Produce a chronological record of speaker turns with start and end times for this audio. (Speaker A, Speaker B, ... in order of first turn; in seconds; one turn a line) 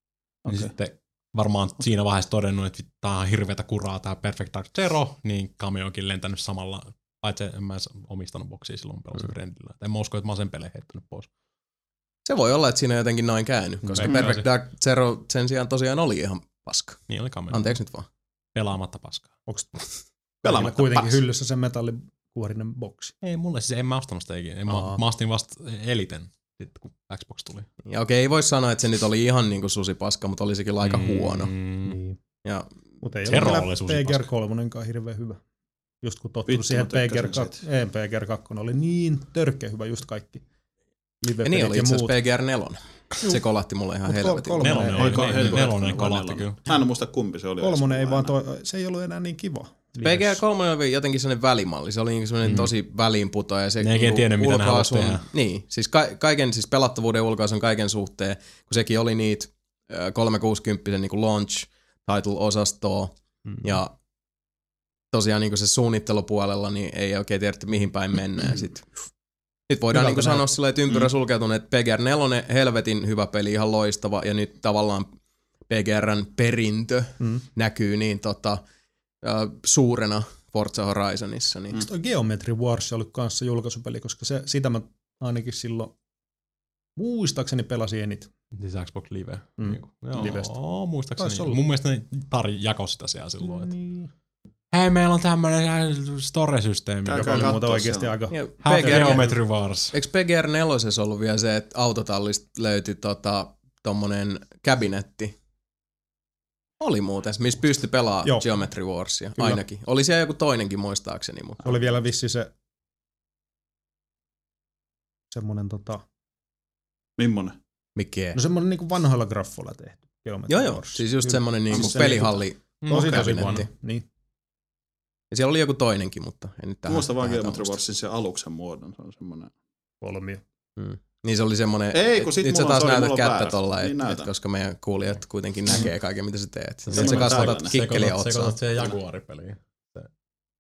Speaker A: 0.5-0.7
Speaker B: 0.5-11.3
Speaker C: 12.3-18.1
Speaker B: 14.0-14.5
Speaker A: 14.0-14.3
Speaker B: 17.1-17.7
Speaker B: 18.6-19.3
Speaker A: 20.4-21.2
Speaker D: 20.4-23.1
Speaker B: 23.2-27.7
Speaker D: 24.7-25.0
Speaker C: 27.9-31.5
Speaker B: 30.8-32.0
Speaker D: 31.9-32.2
Speaker D: 33.0-35.4
Speaker B: 33.3-34.3
Speaker D: 36.0-40.4
Speaker A: 36.5-37.6
Speaker D: 41.2-42.1
Speaker C: 41.4-45.0
Speaker D: 44.1-45.8
Speaker B: 44.6-46.6
Speaker A: 45.0-48.4
Speaker D: 47.6-50.4
Speaker C: 50.0-63.9
Speaker B: 52.4-52.7
Speaker B: 53.8-55.2
Speaker C: 65.1-68.9
Speaker C: 69.7-75.1
Speaker D: 69.9-70.5
Speaker C: 75.7-78.6
Speaker C: 79.2-81.8
Speaker D: 81.8-85.9
Speaker D: 87.0-88.3
Speaker B: 88.6-93.7
Speaker D: 89.6-90.5
Speaker D: 91.2-91.6
Speaker D: 93.4-94.1
Speaker B: 94.7-97.6
Speaker A: 97.0-98.2
Speaker D: 97.2-99.4
Speaker C: 98.3-99.3
Speaker B: 98.6-99.9
Speaker C: 99.9-105.3
Speaker C: 106.8-111.8
Speaker D: 111.6-112.5
Speaker D: 115.3-116.0
Speaker A: 117.2-117.6
Speaker C: 118.0-118.4
Speaker D: 118.3-124.0
Speaker C: 120.5-123.7
Speaker A: 121.7-122.2
Speaker B: 122.8-123.7
Speaker C: 125.3-127.7
Speaker A: 126.9-129.5
Speaker D: 130.0-130.4
Speaker C: 130.8-138.6
Speaker A: 131.9-134.3
Speaker B: 136.9-140.1
Speaker A: 136.9-137.7